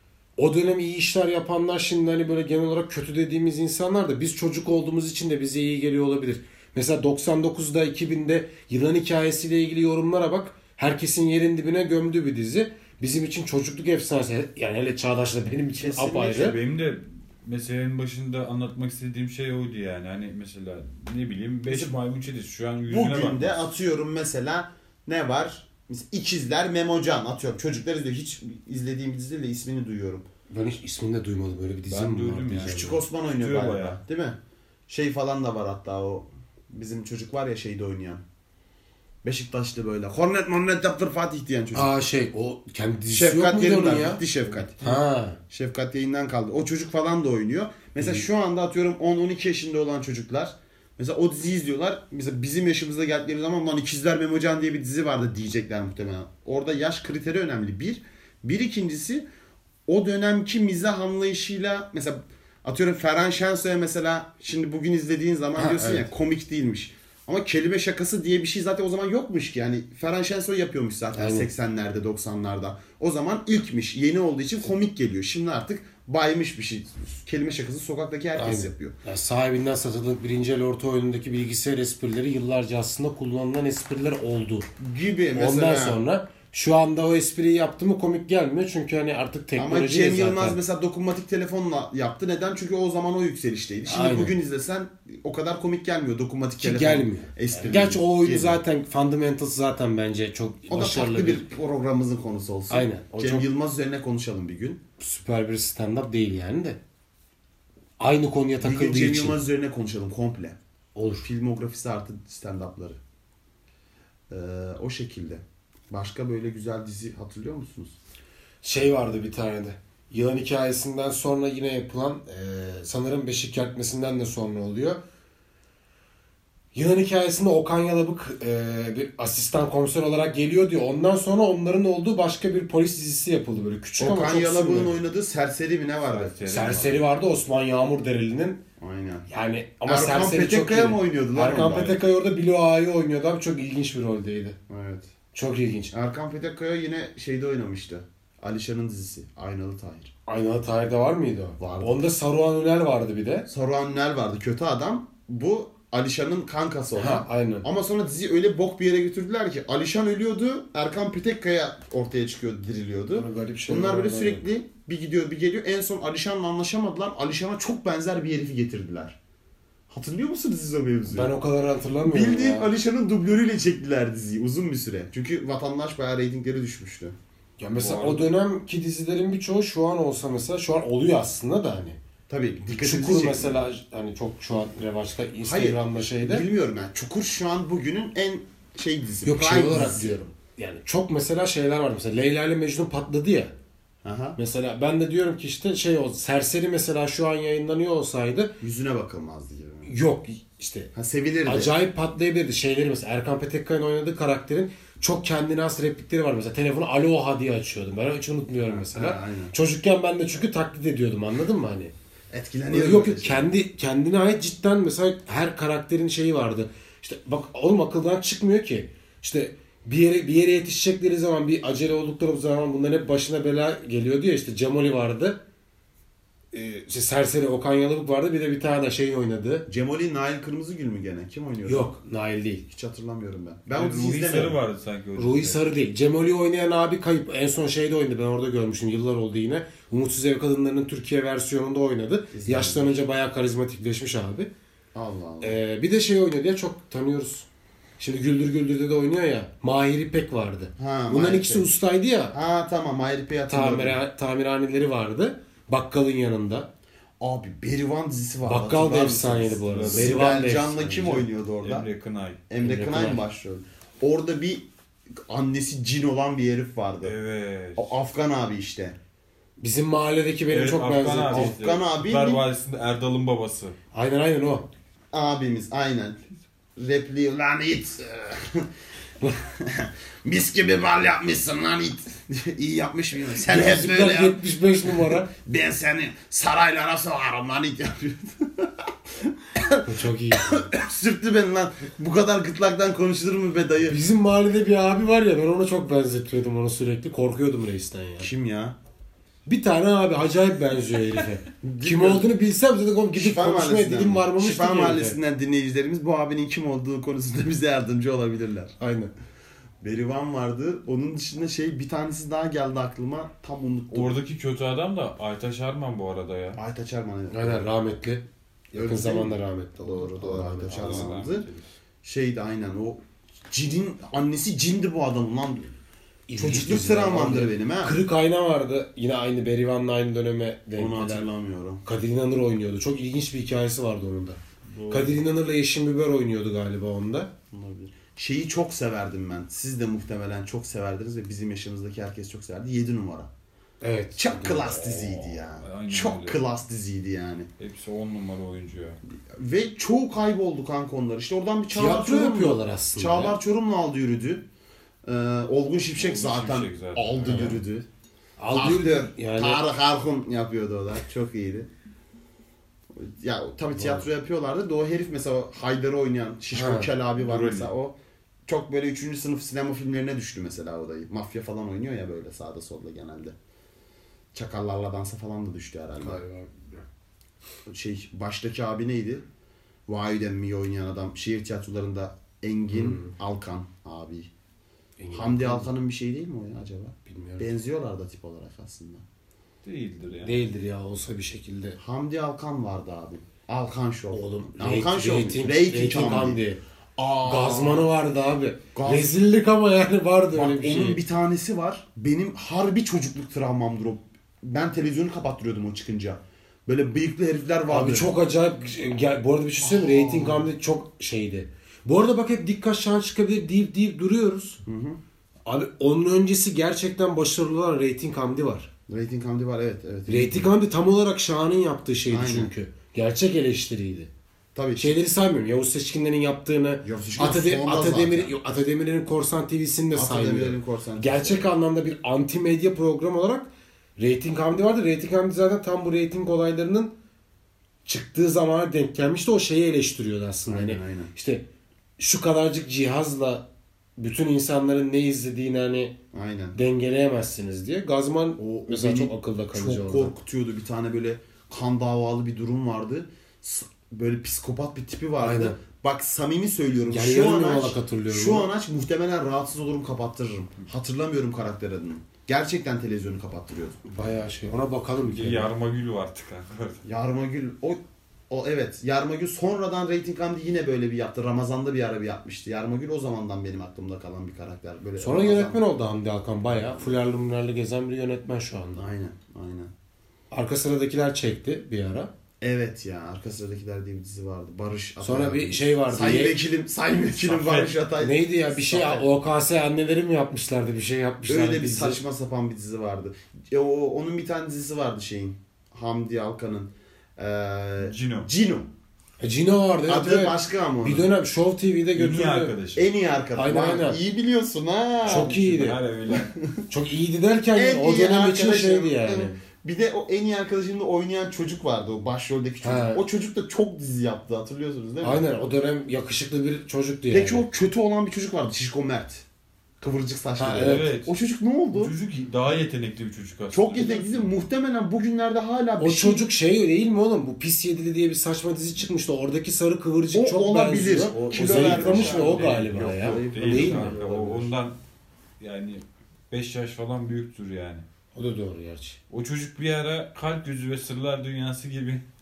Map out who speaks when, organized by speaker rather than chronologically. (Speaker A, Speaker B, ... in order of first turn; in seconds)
Speaker A: 0.4-16.6, 30.5-33.0, 41.7-44.2, 44.8-45.4, 65.6-66.1, 71.2-71.5, 78.3-84.7, 85.3-90.6, 93.8-94.3, 96.6-101.5, 102.7-103.5, 105.0-106.8, 108.0-109.4, 111.0-111.3, 118.6-125.0, 126.7-134.9, 136.5-138.6, 139.3-144.6, 145.3-145.9, 150.3-153.4, 156.9-157.7, 163.1-164.4, 171.1-172.7, 177.6-182.0, 182.6-186.4, 189.2-193.5, 194.3-198.6, 199.8-200.9, 201.4-211.9, 212.7-225.4, 226.5-229.7, 231.7-232.6, 235.2-244.5, 245.4-247.4, 248.0-252.4, 253.5-256.7, 258.4-261.2, 262.6-263.2, 269.6-271.6, 273.9-274.7, 283.4-285.3, 289.9-290.6, 293.9-298.3, 299.4-305.2, 308.8-309.1, 317.3-321.2, 326.3-331.3, 331.8-337.3, 343.8-345.0, 351.7-353.4, 357.3-357.6, 358.4-359.6, 363.8-364.0, 366.5-366.9, 376.0-376.8, 382.7-383.1, 385.0-385.7, 387.1-387.5, 390.2-391.8, 394.1-396.6, 397.2-401.0, 407.7-414.6, 415.4-418.7, 420.1-424.1, 424.8-436.9, 437.9-441.4, 442.0-443.4, 444.0-445.9, 446.5-450.1, 455.2-455.6, 456.9-458.5, 463.9-465.5, 475.0-478.8, 480.3-482.1, 485.0-486.4, 488.0-492.0, 499.2-502.6, 503.3-504.0, 505.0-505.8, 506.7-509.4, 512.6-513.0, 515.0-517.4, 520.4-520.9, 525.8-534.0, 538.1-539.0
Speaker B: 15.7-16.6, 21.7-21.9, 22.9-30.2, 32.6-38.2, 39.2-41.9, 43.1-44.8, 45.5-59.2, 59.9-79.0, 84.8-86.0, 89.5-98.6, 100.7-104.8, 108.6-110.6, 111.2-113.0, 114.3-118.0, 134.0-136.7, 138.8-139.3, 139.8-142.0, 144.7-145.1, 145.9-150.1, 151.6-152.0, 153.5-169.2, 169.9-171.3, 172.0-177.2, 182.3-183.6, 185.4-190.2, 194.0-194.4, 198.6-199.9, 200.9-201.7, 208.7-209.5, 212.3-213.5, 229.7-231.9, 232.7-234.6, 242.3-243.0, 244.9-245.6, 250.8-251.7, 252.3-254.0, 257.2-261.9, 262.5-264.6, 265.2-267.1, 267.8-269.0, 271.3-272.4, 275.1-276.2, 276.8-278.7, 279.2-294.0, 298.2-298.8, 301.6-302.3, 303.1-308.7, 309.8-314.2, 316.6-317.6, 318.7-321.4, 322.0-325.7, 326.4-328.0, 330.8-331.8, 334.7-335.2, 337.5-343.3, 344.1-347.5, 349.3-354.4, 355.0-357.9, 358.5-361.7, 362.9-367.9, 368.5-373.3, 374.3-376.2, 377.6-379.2, 379.9-384.3, 385.1-389.0, 391.8-396.4, 397.0-397.9, 398.7-399.1, 400.3-408.1, 409.6-410.5, 414.6-415.0, 418.9-420.5, 422.1-422.5, 424.5-424.9, 426.8-428.3, 429.9-431.5, 440.5-441.1, 446.1-446.6, 448.4-463.8, 466.8-475.6, 478.7-479.7, 482.4-489.1, 491.2-498.7, 499.9-501.1, 502.7-505.3, 506.1-506.6, 507.5-515.2, 517.1-519.2, 519.8-521.9, 523.5-526.3, 530.1-534.5
Speaker C: 16.4-23.6, 31.9-34.0, 136.1-137.0, 177.8-178.3, 233.7-235.7, 259.6-260.4, 261.6-262.4, 267.0-268.0, 270.5-273.8, 313.9-316.6, 320.7-321.7, 344.9-346.4, 347.6-349.0, 355.9-357.6, 367.2-367.7, 389.6-390.4, 465.0-466.8, 487.2-487.8, 497.8-498.3, 501.9-502.9, 505.0-506.3, 520.6-521.1, 521.7-524.3, 531.1-534.8, 535.4-537.8, 539.1-542.0